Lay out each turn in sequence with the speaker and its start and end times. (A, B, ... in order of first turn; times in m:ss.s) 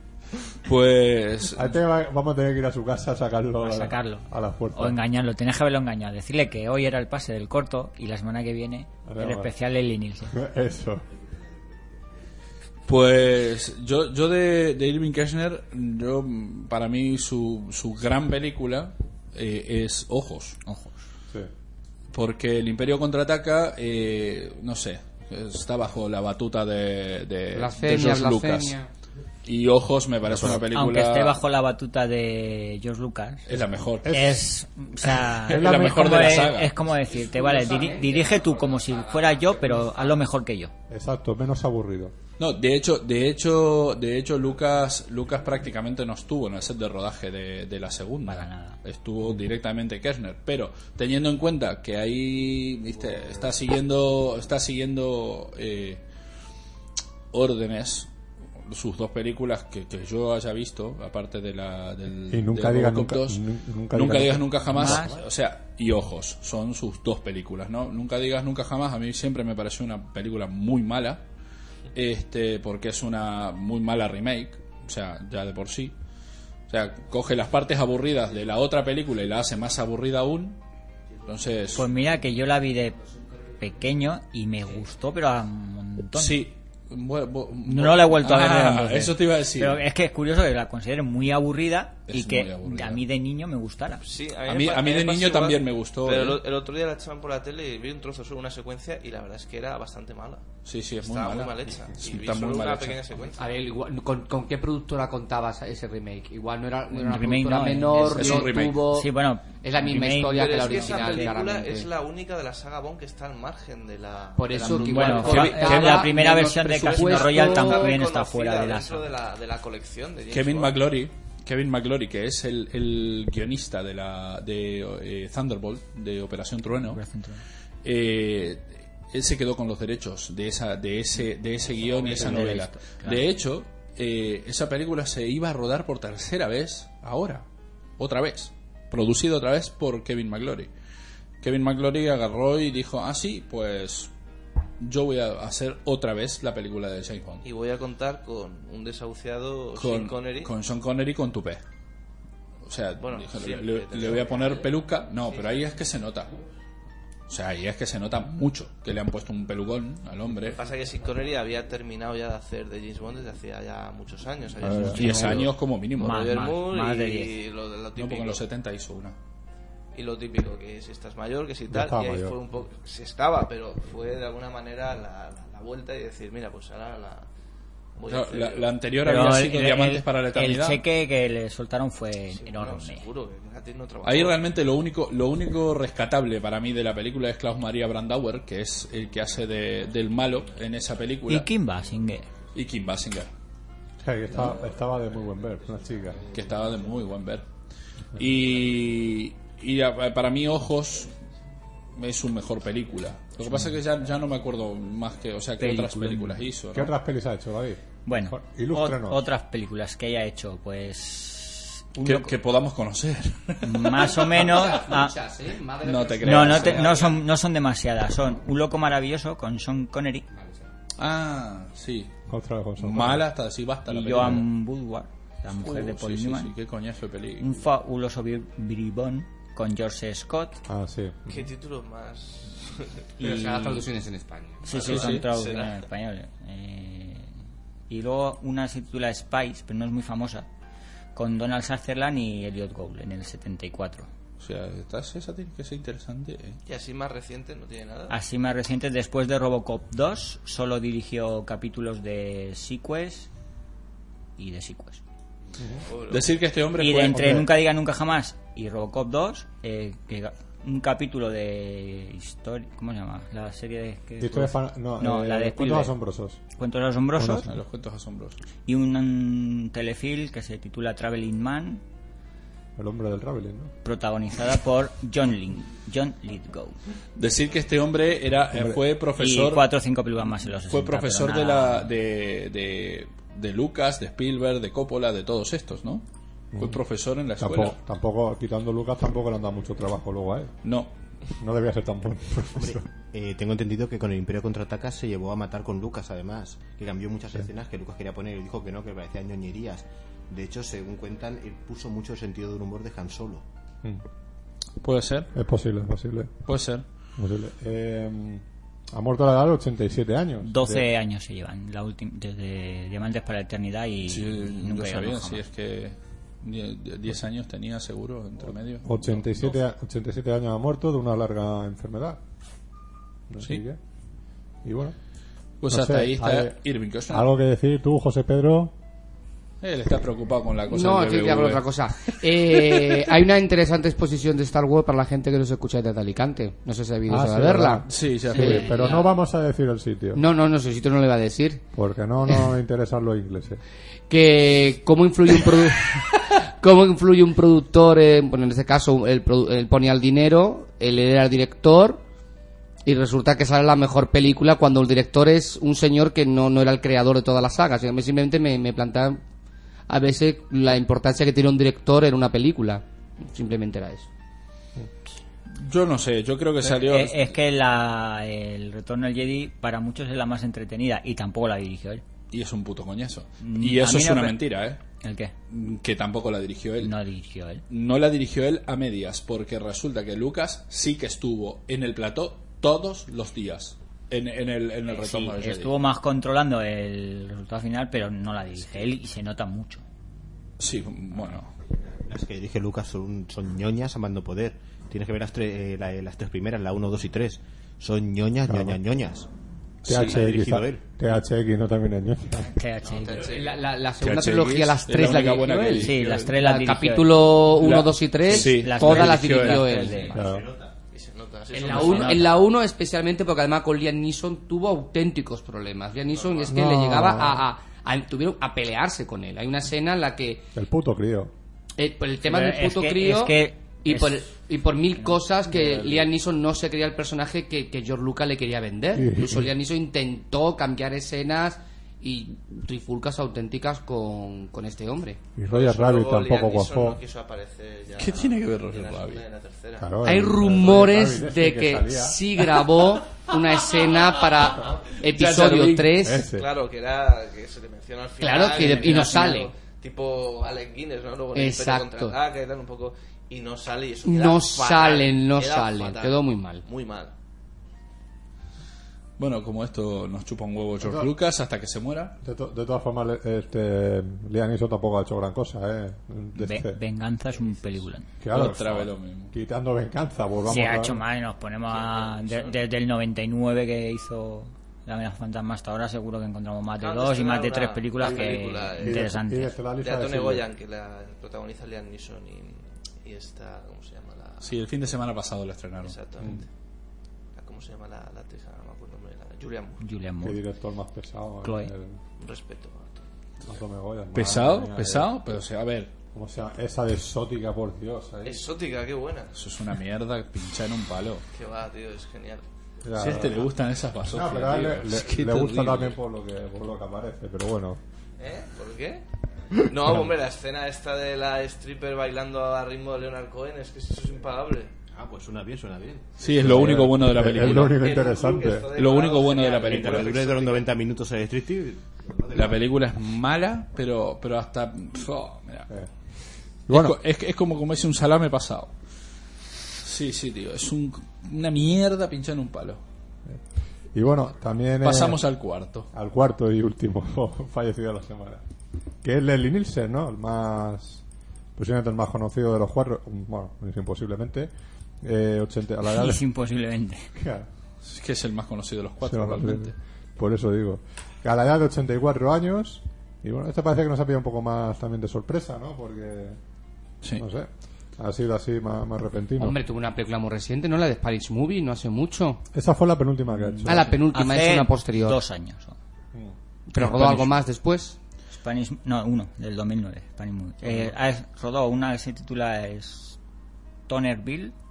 0:00.6-0:01.8 A
0:01.5-0:05.0 B
0:03.6-0:10.4 C
0:09.0-0:09.5 B
0:10.3-0:11.0 B
0:12.9-0:20.6 A
0:20.6-0:21.0 C
0:22.1-0:28.8 A
0:27.5-0:28.9 D
0:29.4-0:31.4 A
0:30.3-0:30.6 B
0:30.7-0:33.5 C
0:33.5-0:34.2 A
0:34.0-0:34.4 B
0:34.1-0:40.7 C
0:35.2-0:36.8 A
0:35.5-0:36.3 B
0:36.9-0:40.2 D
0:40.9-0:42.1 B
0:42.4-0:56.0 A
0:48.2-0:48.8 C
0:57.3-0:58.1 A
0:58.6-1:03.4 A
1:02.3-1:05.2 B
1:03.9-1:11.2 A
1:04.7-1:05.2 C
1:11.9-1:15.9 A
1:16.7-1:20.6 A
1:21.2-1:21.9 A
1:21.7-1:23.0 C
1:23.6-1:26.4 C
1:26.2-1:29.8 A
1:27.6-1:34.0 C
1:32.1-1:33.0 A
1:34.0-1:40.4 E
1:34.4-1:36.4 A
1:40.6-1:43.2 A
1:41.0-1:43.5 E
1:43.4-1:51.9 D
1:46.9-1:51.3 C
1:48.0-1:48.8 A
1:50.3-1:56.1 E
1:54.4-1:57.9 D
1:54.6-1:59.1 C
1:54.6-1:55.8 A
1:56.8-2:00.8 E
2:00.3-2:07.0 A
2:06.7-2:07.4 C
2:07.8-2:17.4 A
2:11.9-2:13.2 C
2:18.0-2:20.7 A
2:21.4-2:24.1 A
2:24.8-2:27.4 A
2:27.4-2:30.5 E
2:29.8-2:31.6 A
2:32.6-2:36.3 A
2:33.0-2:34.7 E
2:35.2-2:35.6 E
2:37.3-2:40.6 A
2:40.4-2:48.4 E
2:44.6-2:45.4 B
2:44.7-2:46.4 A
2:44.8-2:47.3 C
2:48.0-2:49.2 A
2:49.9-2:57.3 E
2:51.7-2:52.4 B
2:58.0-2:58.7 E
2:58.1-3:00.8 A
2:59.0-3:03.0 C
3:02.3-3:04.4 E
3:04.0-3:11.5 A
3:11.3-3:12.3 C
3:12.5-3:13.3 A
3:14.0-3:16.3 B
3:16.3-3:17.4 A
3:18.1-3:21.1 A
3:21.9-3:26.9 A
3:25.6-3:26.4 C
3:26.7-3:29.2 B
3:28.1-3:32.3 C
3:32.0-3:34.7 A
3:33.6-3:35.2 C
3:34.3-3:37.2 D
3:35.8-3:37.1 A
3:36.2-3:40.3 C
3:40.3-3:40.7 D
3:41.0-3:42.1 A
3:42.3-3:43.2 B
3:42.8-3:44.4 A
3:43.9-3:46.5 C
3:45.5-3:47.6 A
3:47.4-3:50.6 C
3:50.7-3:51.5 B
3:51.3-3:53.1 E
3:53.2-3:54.7 D
3:53.2-3:53.8 C
3:54.6-3:57.3 C
3:54.7-3:55.7 E
3:54.8-3:55.3 A
3:57.9-4:00.5 C
4:01.1-4:04.1 C
4:04.4-4:06.6 A
4:06.6-4:08.1 E
4:08.1-4:13.3 C
4:14.4-4:15.0 C
4:15.9-4:16.4 E
4:16.1-4:17.4 A
4:16.8-4:25.9 C
4:17.1-4:17.5 B
4:24.2-4:26.4 B
4:26.6-4:27.5 C
4:27.2-4:27.5 B
4:27.4-4:28.4 A
4:28.6-4:31.8 C
4:32.8-4:33.7 B
4:33.8-4:36.8 C
4:37.2-4:39.7 A
4:38.5-4:38.8 B
4:39.2-4:41.9 C
4:40.5-4:46.0 A
4:46.5-4:46.8 B
4:46.6-4:47.8 A
4:47.4-4:50.5 B
4:50.6-4:50.9 A
4:51.4-4:52.9 B
4:52.6-5:03.4 F
5:04.8-5:05.3 A
5:05.3-5:06.3 B
5:06.5-5:06.8 A
5:07.2-5:10.9 B
5:10.4-5:15.4 C
5:14.1-5:19.6 A
5:18.8-5:22.2 B
5:23.3-5:23.8 B
5:24.6-5:24.9 B
5:25.6-5:27.3 A
5:25.7-5:26.6 B
5:27.1-5:28.7 B
5:29.6-5:33.1 A
5:30.7-5:39.1 D
5:37.1-5:40.2 B
5:37.9-5:38.9 A
5:40.1-5:41.6 D
5:41.7-5:43.6 B
5:44.1-5:52.0 D
5:52.8-5:59.2 D
5:59.9-6:04.1 D
6:05.6-6:07.3 A
6:06.6-6:12.0 C
6:12.3-6:14.8 A
6:13.4-6:14.4 C
6:15.0-6:15.3 C
6:15.5-6:17.0 A
6:16.8-6:17.6 C
6:17.7-6:25.7 A
6:24.9-6:29.8 C
6:30.6-6:31.5 A
6:32.1-6:39.3 F
6:38.5-6:38.8 B
6:39.8-6:40.2 A
6:39.9-6:42.5 B
6:39.9-6:40.8 F
6:42.4-6:43.3 C
6:42.9-6:43.6 E
6:43.1-6:50.1 D
6:44.0-6:46.3 A
6:45.8-6:47.3 C
6:47.5-6:50.0 A
6:48.2-6:50.1 C
6:50.1-6:50.7 F
6:50.1-6:50.4 B
6:50.9-6:52.3 E
6:51.5-7:00.4 D
6:51.6-6:52.3 C
6:56.1-6:56.5 E
6:56.5-6:57.4 B
7:00.6-7:01.3 B
7:01.8-7:15.2 D
7:02.2-7:04.3 C
7:05.5-7:06.0 B
7:08.9-7:09.5 B
7:15.4-7:17.0 B
7:15.5-7:20.0 E
7:18.0-7:19.2 A
7:19.8-7:22.2 B
7:20.0-7:26.2 D
7:25.0-7:25.9 A
7:26.0-7:26.5 B
7:26.2-7:37.1 E
7:28.2-7:29.5 D
7:31.4-7:32.1 D
7:34.0-7:36.6 D
7:39.2-7:42.2 A
7:40.8-7:41.1 B
7:42.2-7:46.8 B
7:46.4-7:48.1 C
7:48.2-7:51.0 B
7:48.3-7:49.3 A
7:50.5-7:59.6 C
7:51.7-7:52.6 E
7:56.8-7:59.1 E
7:58.8-8:00.4 B
7:59.8-8:04.6 E
8:04.4-8:06.0 A
8:05.8-8:06.5 E
8:07.4-8:09.8 E
8:09.8-8:10.4 C
8:10.2-8:12.0 B
8:11.4-8:11.7 C
8:12.2-8:13.1 E
8:13.4-8:15.1 B
8:14.1-8:15.9 A
8:16.1-8:18.4 B
8:18.2-8:19.3 E
8:19.4-8:21.2 A
8:21.3-8:22.4 E
8:22.8-8:23.5 B
8:22.9-8:25.9 A
8:24.1-8:27.8 B
8:28.2-8:29.0 E
8:29.6-8:30.1 B
8:29.6-8:34.7 E
8:34.9-8:36.4 F
8:36.2-8:38.0 A
8:36.4-8:38.7 B
8:37.6-8:40.7 E
8:38.7-8:40.2 A
8:39.6-8:42.6 F
8:42.3-8:45.7 A
8:46.7-8:47.0 B
8:46.7-8:48.7 A
8:49.8-8:52.8 A
8:53.9-8:55.2 B
8:54.8-8:55.9 A
8:55.9-8:58.4 B
8:59.0-9:01.0 B
9:01.6-9:04.5 B
9:05.0-9:06.2 B
9:05.8-9:07.1 C
9:07.1-9:07.5 B
9:07.8-9:09.7 A
9:09.0-9:16.4 B
9:17.2-9:19.6 B
9:19.4-9:22.4 D
9:22.5-9:23.9 B
9:23.6-9:25.8 C
9:23.6-9:25.2 D
9:26.7-9:28.0 D
9:26.8-9:27.2 A
9:28.3-9:33.2 C
9:33.9-9:34.5 C